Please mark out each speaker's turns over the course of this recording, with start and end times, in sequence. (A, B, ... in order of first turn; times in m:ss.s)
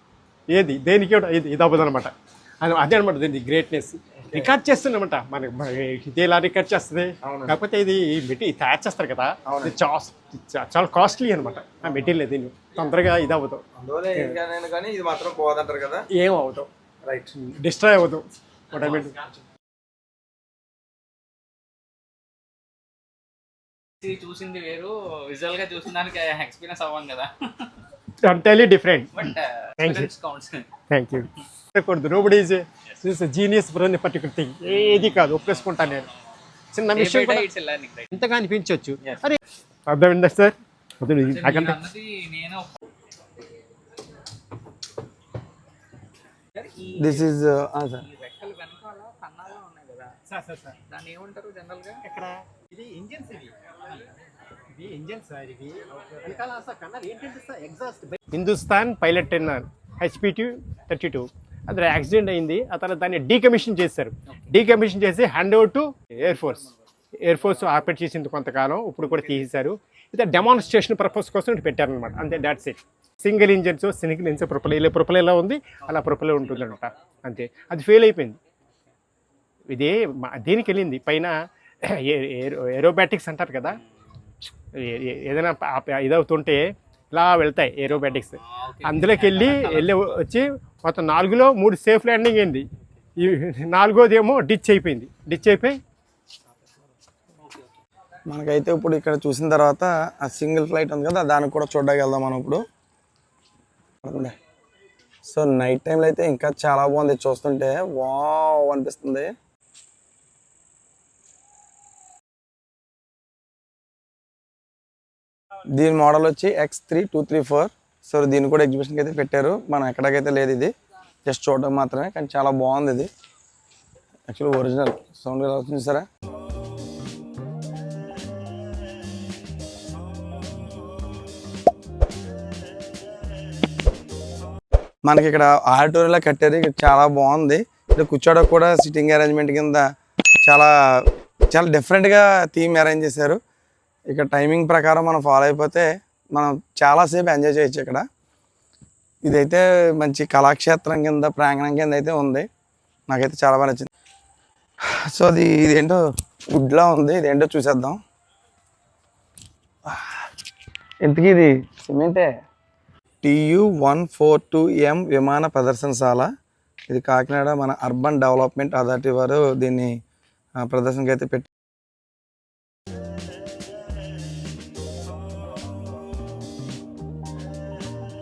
0:00.5-0:13.6 A
0:04.2-0:04.5 B
0:07.2-0:07.6 B
0:09.4-0:09.7 B
0:11.8-0:12.1 B
0:13.8-0:16.1 B
0:16.1-0:16.7 A
0:17.0-0:17.3 B
0:17.3-0:19.2 A
0:24.0-0:27.7 C
0:28.2-0:30.1 A
0:29.2-0:30.7 C
0:30.9-0:36.1 A
0:34.7-0:36.1 C
0:36.7-0:37.5 A
0:36.9-0:38.1 C
0:38.1-0:41.9 A
0:41.4-0:42.7 C
0:46.5-0:47.1 C
0:46.8-0:48.1 B
0:48.1-0:50.2 C
0:50.3-0:50.8 A
0:50.8-0:52.0 C
0:52.0-0:54.1 A
0:54.7-1:06.7 A
1:07.2-1:18.4 A
1:19.7-1:23.8 A
1:24.7-1:32.6 A
1:28.5-1:30.2 C
1:33.2-1:35.8 A
1:38.3-1:42.6 B
1:44.0-1:44.3 B
1:45.3-1:49.3 B
1:55.8-2:00.7 B
2:01.3-2:03.1 B
2:04.3-2:06.0 B
2:15.0-2:19.8 B
2:20.4-2:23.4 B
2:24.1-2:28.0 B
2:29.2-2:32.4 B
2:33.1-2:33.9 B
2:35.1-2:36.0 B
2:36.5-2:38.0 B
2:39.9-2:40.2 B
2:41.0-2:42.3 B
2:43.2-2:46.3 B
2:46.9-2:49.9 B
2:50.6-2:51.5 B